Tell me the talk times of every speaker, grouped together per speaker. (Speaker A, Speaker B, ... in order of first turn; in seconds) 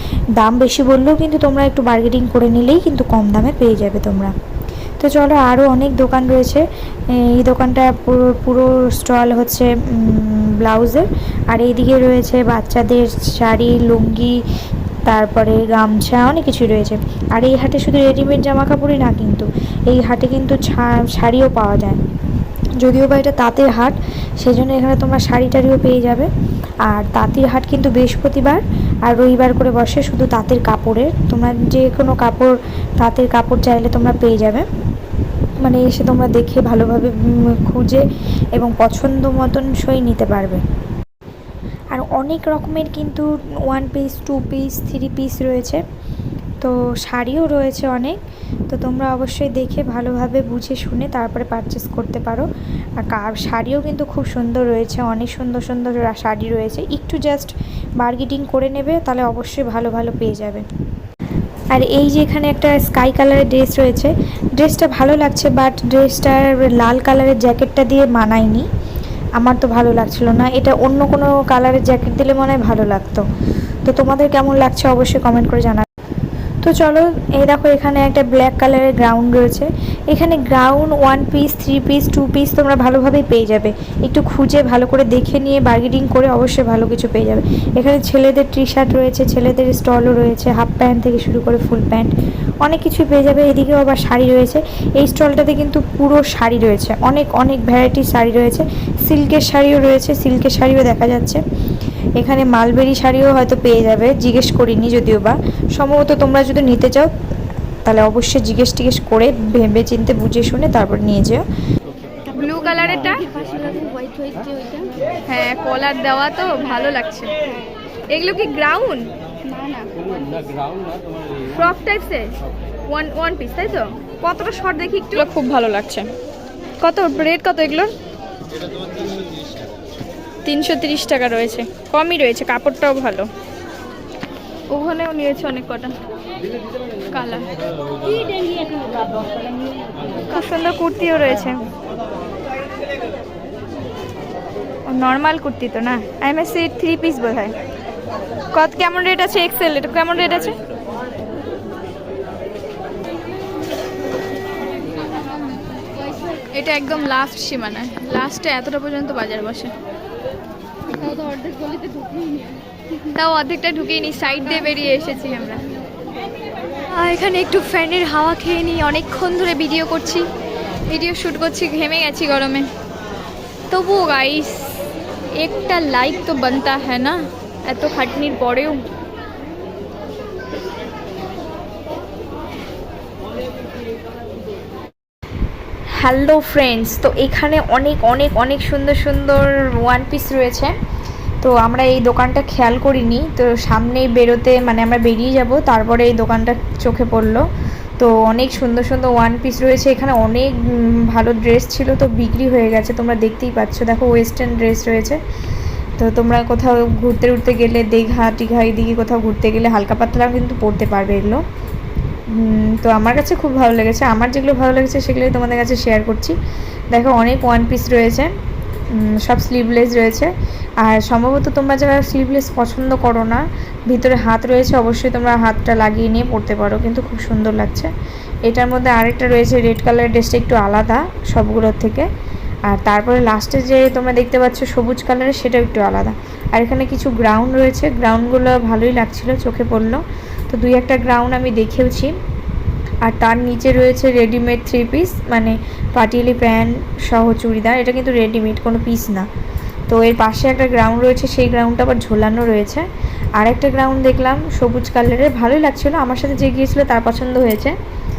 Speaker A: 0.4-4.3, 5.0-14.4, 15.1-22.0, 22.8-26.3, 26.9-34.6, 35.6-40.6, 41.9-45.8, 46.6-52.5, 53.0-60.6, 61.7-68.7, 69.4-73.2, 73.8-75.8, 76.6-92.1, 92.6-101.4, 102.2-107.1, 107.8-111.4, 186.0-190.7, 191.4-197.4, 198.0-205.2, 206.0-211.4, 212.3-216.4, 216.9-218.3, 218.9-227.9, 228.4-232.1, 232.7-242.1, 243.0-249.3, 249.9-257.8
Speaker B: 112.3-113.2, 115.3-117.3, 118.1-119.1, 121.4-122.4, 122.9-126.1, 126.8-127.9, 130.4-133.3, 134.7-135.9, 137.1-137.5, 140.3-141.7, 144.9-147.6, 148.5-150.6, 156.5-159.7, 163.1-165.7, 166.9-170.2, 170.9-172.7, 173.7-174.8, 175.4-178.8
Speaker C: 113.3-114.9, 119.4-120.5, 138.2-139.0, 160.9-162.6